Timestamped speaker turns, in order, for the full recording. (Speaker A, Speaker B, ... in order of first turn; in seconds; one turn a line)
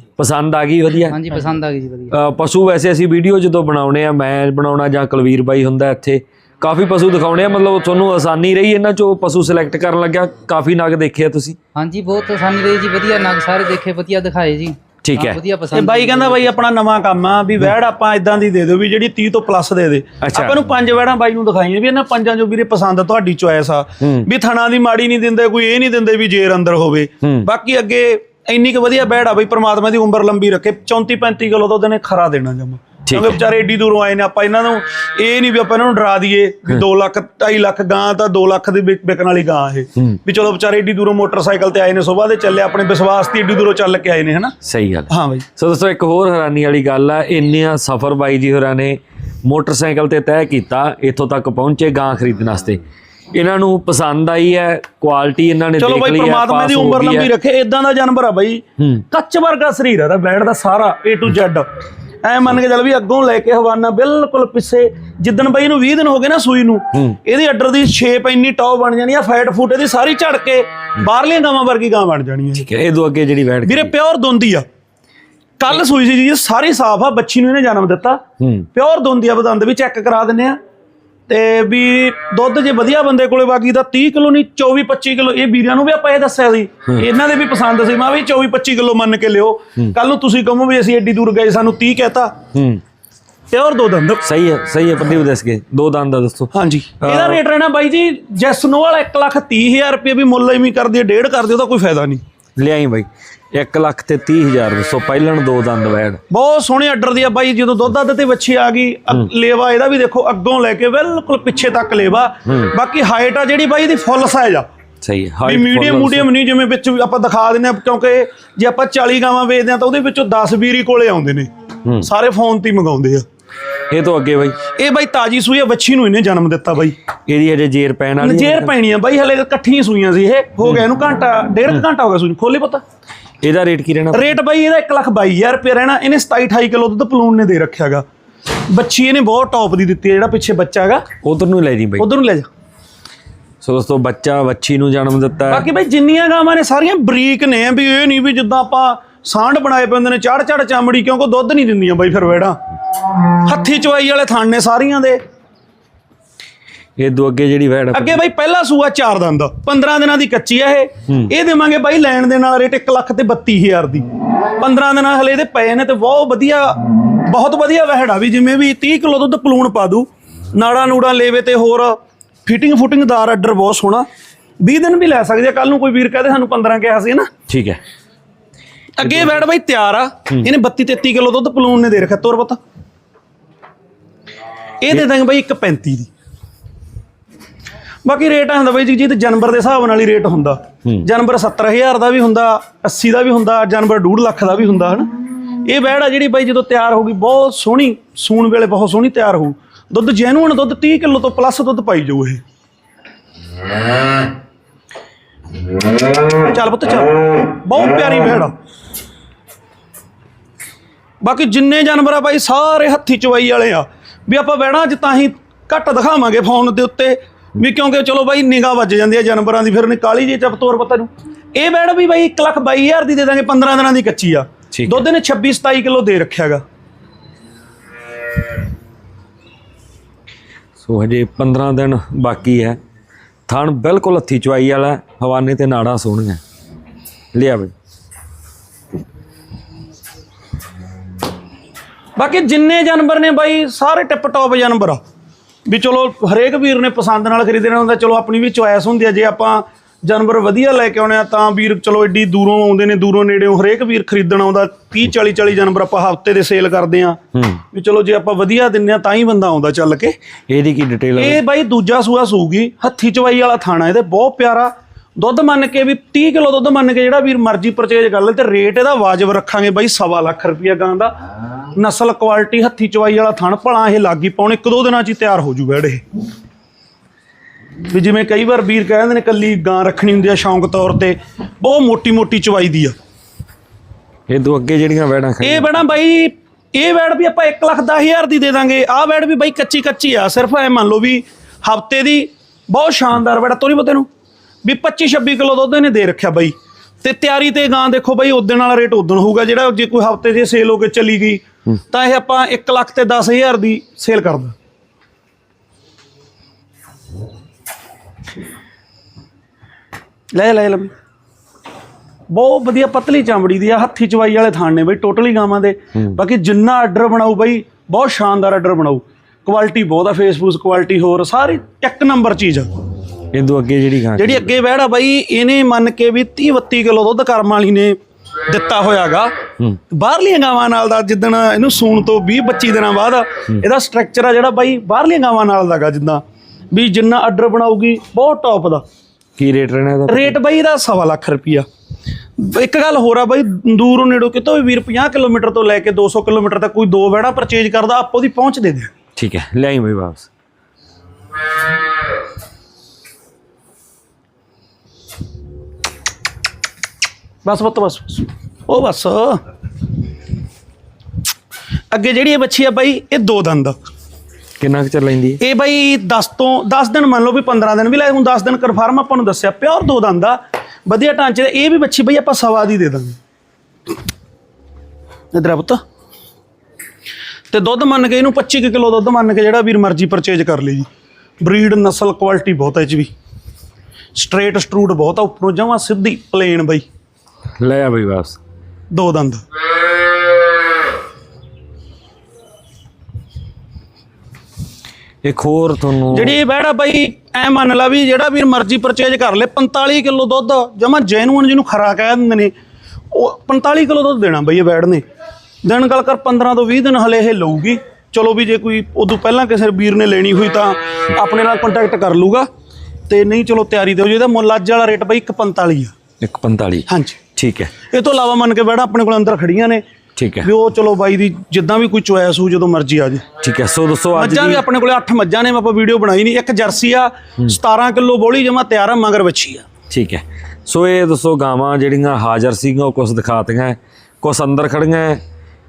Speaker A: 0.2-1.2
Speaker B: 1.1-2.1
Speaker A: 2.1-11.6
Speaker B: 11.8-16.5
Speaker A: 15.0-15.4
Speaker C: 15.7-44.5
Speaker A: 20.2-20.6
Speaker A: 24.0-24.3
Speaker A: 33.0-33.4
Speaker A: 44.6-52.8
Speaker C: 45.1-45.5
Speaker A: 53.3-57.3
Speaker C: 55.8-61.7
Speaker C: 62.2-72.7
Speaker A: 72.6-73.9
Speaker C: 73.6-74.7
Speaker C: 75.6-78.2
Speaker A: 78.4-78.7
Speaker C: 78.7-80.6
Speaker C: 81.3-92.3
Speaker A: 92.5-92.8
Speaker C: 93.5-94.2
Speaker A: 94.2-97.4
Speaker C: 96.5-102.2
Speaker A: 102.6-106.2
Speaker C: 106.3-114.7
Speaker A: 112.5-112.7
Speaker A: 115.0-116.3
Speaker C: 115.5-121.5
Speaker C: 122.0-123.2
Speaker A: 123.9-124.6
Speaker C: 124.7-127.0
Speaker A: 127.3-128.7
Speaker C: 128.2-132.8
Speaker A: 133.4-134.3
Speaker C: 134.1-138.0
Speaker C: 138.7-141.0
Speaker A: 141.2-142.1
Speaker C: 142.0-142.5
Speaker A: 143.6-145.7
Speaker C: 145.5-152.6
Speaker C: 153.4-155.2
Speaker A: 157.0-158.2
Speaker C: 157.9-164.1
Speaker C: 164.6-171.9
Speaker C: 172.4-174.1
Speaker C: 174.6-177.3
Speaker A: 177.5-177.8
Speaker C: 179.0-182.6
Speaker C: 184.8-186.1
Speaker C: 188.0-195.1
Speaker C: 195.6-202.4
Speaker C: 206.4-208.5
Speaker C: 211.2-226.6
Speaker A: 224.7-225.0
Speaker A: 230.8-232.8
Speaker A: 233.5-236.4
Speaker A: 237.3-237.7
Speaker C: 242.2-245.0
Speaker C: 245.7-257.2
Speaker A: 257.3-257.6
Speaker C: 257.7-260.1
Speaker A: 260.5-261.4
Speaker C: 261.2-271.1
Speaker C: 271.7-276.0
Speaker C: 277.9-282.9
Speaker A: 284.3-285.7
Speaker C: 285.4-294.1
Speaker C: 294.6-304.5
Speaker C: 310.3-310.9
Speaker C: 312.3-322.7
Speaker A: 323.3-324.5
Speaker C: 324.2-327.9
Speaker C: 328.5-329.3
Speaker C: 329.9-338.8
Speaker A: 339.4-340.4
Speaker C: 340.1-341.6
Speaker C: 342.4-348.9
Speaker A: 349.1-350.3
Speaker C: 357.4-359.4
Speaker C: 361.9-363.8
Speaker A: 364.6-365.4
Speaker C: 365.4-373.2
Speaker C: 375.3-375.8
Speaker C: 377.5-380.9
Speaker C: 381.4-383.1
Speaker C: 384.1-386.8
Speaker A: 387.6-388.4
Speaker C: 388.9-389.4
Speaker A: 395.2-396.4
Speaker C: 396.1-402.5
Speaker C: 403.1-405.0
Speaker C: 405.6-412.5
Speaker C: 413.1-415.9
Speaker A: 416.2-417.7
Speaker C: 416.9-417.2
Speaker C: 417.9-419.8
Speaker A: 420.1-420.5
Speaker C: 420.4-423.2
Speaker A: 423.4-424.6
Speaker C: 424.1-429.6
Speaker A: 429.9-435.2